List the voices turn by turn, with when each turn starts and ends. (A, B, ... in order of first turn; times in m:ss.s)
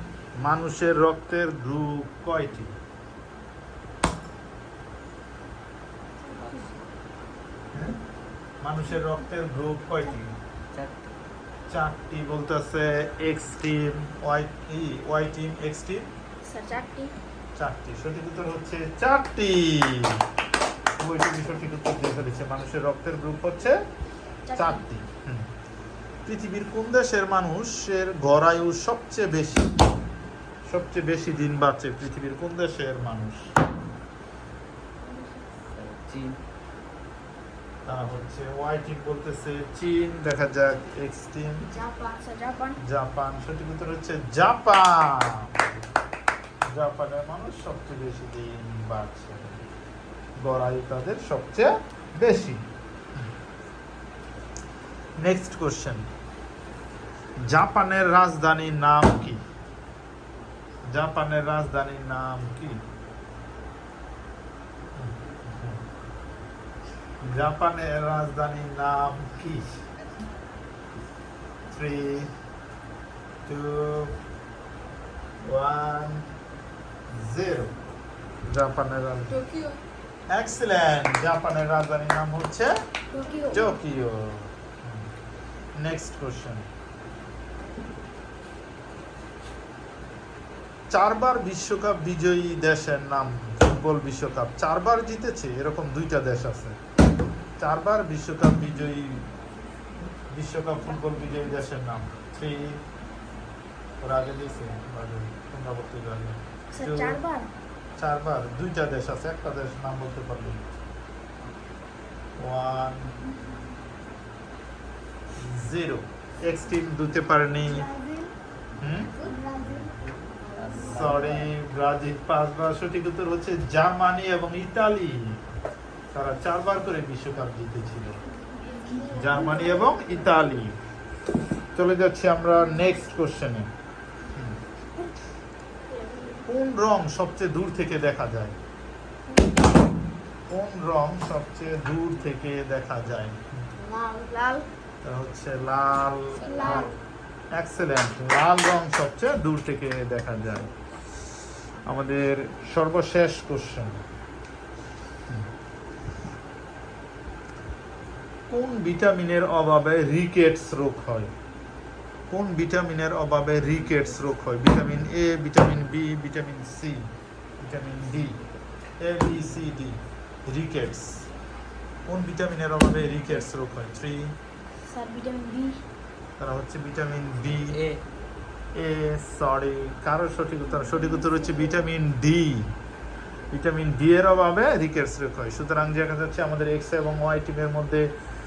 0:00.4-0:02.7 A
0:06.3-0:06.7 B
0:08.6-0:10.3 A
0:10.7-0:11.0 C
0:11.7-0:16.1 A
0:16.4-0:17.1 B
0:17.6-0:20.2 A
0:21.0-0:23.8 A
0:24.5-0:24.8 B
0:24.5-0:25.5 A
0:26.3-0:29.7 A
0:30.7-0:33.4 A
0:35.1-0:35.5 B
0:35.8-0:36.4 C
0:37.9-0:41.7 A
0:41.7-0:42.8 B
0:42.8-0:45.5 A
0:46.7-0:49.6 A
0:50.4-0:52.6 A
0:55.2-0:56.0 A
0:57.5-0:59.4 A
1:00.9-1:02.8 A
1:05.0-1:05.8 A
1:07.2-1:09.8 A
1:11.7-1:12.3 A
1:13.5-1:14.2 A
1:15.4-1:16.2 A
1:17.1-1:17.8 A
1:18.4-1:19.4 A
1:19.4-1:19.7 B
1:20.3-1:22.7 A
1:23.1-1:23.7 B
1:23.5-1:25.1 A
1:25.8-1:26.7 A
1:30.9-1:36.8 A
1:37.6-1:39.3 A
1:40.3-1:42.8 A
1:44.0-1:47.2 A
1:46.7-1:47.5 B
1:48.0-1:50.7 A
1:52.4-1:53.1 A
1:55.4-1:57.9 A
1:57.7-1:58.3 B
1:58.8-1:59.2 A
1:59.2-1:59.9 B
2:00.6-2:01.4 B
2:00.6-2:01.3 C
2:00.8-2:05.4 A
2:06.1-2:08.2 A
2:08.7-2:10.0 B
2:09.2-2:10.7 A
2:11.8-2:13.7 A
2:14.3-2:14.6 A
2:15.9-2:16.4 B
2:16.5-2:18.6 A
2:20.5-2:23.5 A
2:23.8-2:24.7 B
2:25.0-2:26.9 A
2:26.4-2:26.9 B
2:27.6-2:30.7 A
2:31.9-2:34.0 A
2:38.5-2:41.3 A
2:42.3-2:47.1 A
2:47.6-2:48.4 A
2:49.0-2:51.2 A
2:52.1-2:54.3 A
2:54.9-2:55.8 B
2:56.4-2:57.8 A
2:57.7-2:58.0 C
2:58.8-3:02.7 A
3:00.7-3:01.7 B
3:03.5-3:08.1 A